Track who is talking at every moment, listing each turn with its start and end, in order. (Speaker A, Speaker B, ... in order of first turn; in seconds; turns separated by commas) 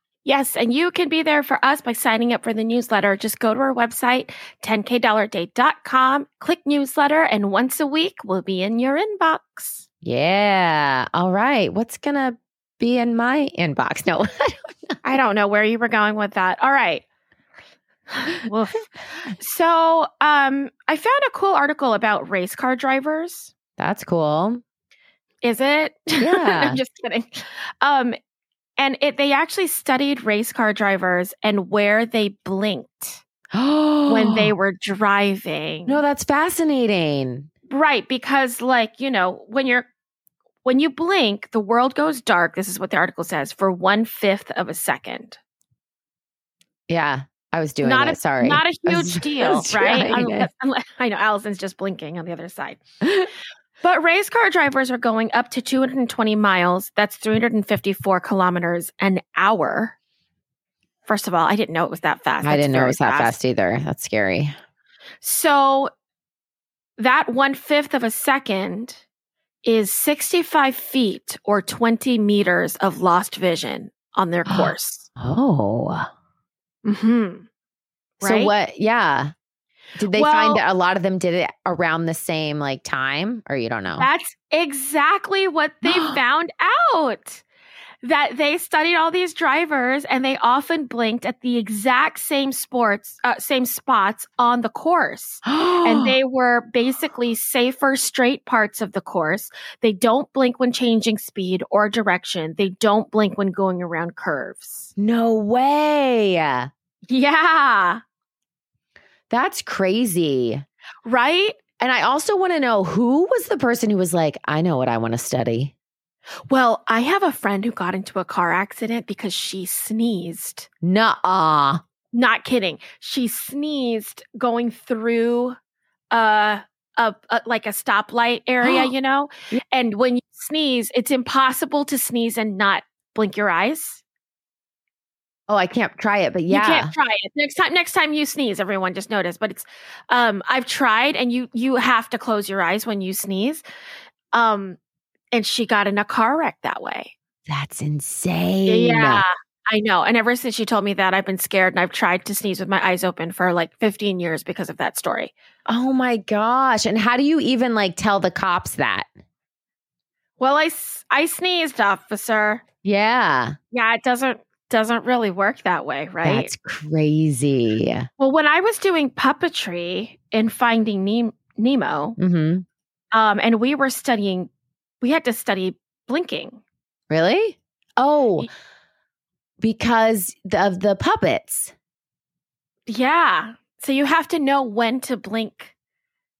Speaker A: 0.2-9.8, Speaker B: 10.0-14.9, Speaker A: 15.0-17.0, Speaker A: 18.1-23.5, Speaker B: 23.8-24.6, Speaker A: 25.4-28.1, Speaker B: 26.2-26.8, Speaker A: 28.8-33.2, Speaker B: 33.5-34.5, Speaker A: 34.1-36.0, Speaker B: 35.9-37.5, Speaker A: 37.7-39.9, Speaker A: 40.6-45.4, Speaker B: 46.9-50.5, Speaker A: 47.8-52.8, Speaker A: 53.8-60.0, Speaker A: 61.0-63.4, Speaker B: 62.4-64.5, Speaker A: 65.2-65.9, Speaker A: 67.0-69.0, Speaker A: 69.6-75.1, Speaker B: 74.5-76.1, Speaker A: 76.8-77.5, Speaker A: 78.2-78.5, Speaker B: 78.2-79.3, Speaker B: 80.0-84.1, Speaker A: 80.1-80.6, Speaker A: 84.0-87.4, Speaker B: 85.8-86.2, Speaker A: 88.0-104.9, Speaker B: 95.4-96.2, Speaker B: 105.0-106.7, Speaker A: 107.1-108.0, Speaker B: 109.3-110.6, Speaker A: 111.0-111.6, Speaker B: 111.8-115.7, Speaker A: 116.5-120.7, Speaker B: 120.8-121.8, Speaker A: 122.1-125.5, Speaker A: 126.1-134.0, Speaker B: 128.6-128.9, Speaker B: 135.5-136.9, Speaker A: 136.5-143.6, Speaker A: 144.3-144.8, Speaker A: 145.3-147.1, Speaker B: 147.5-149.2, Speaker A: 148.7-155.3, Speaker B: 155.7-159.1, Speaker A: 160.4-162.6, Speaker B: 162.8-163.5, Speaker A: 163.7-166.5, Speaker B: 166.2-168.1, Speaker A: 168.2-172.2, Speaker B: 172.2-172.6, Speaker A: 173.1-176.6, Speaker B: 177.1-178.5, Speaker B: 179.6-181.7, Speaker A: 182.9-185.7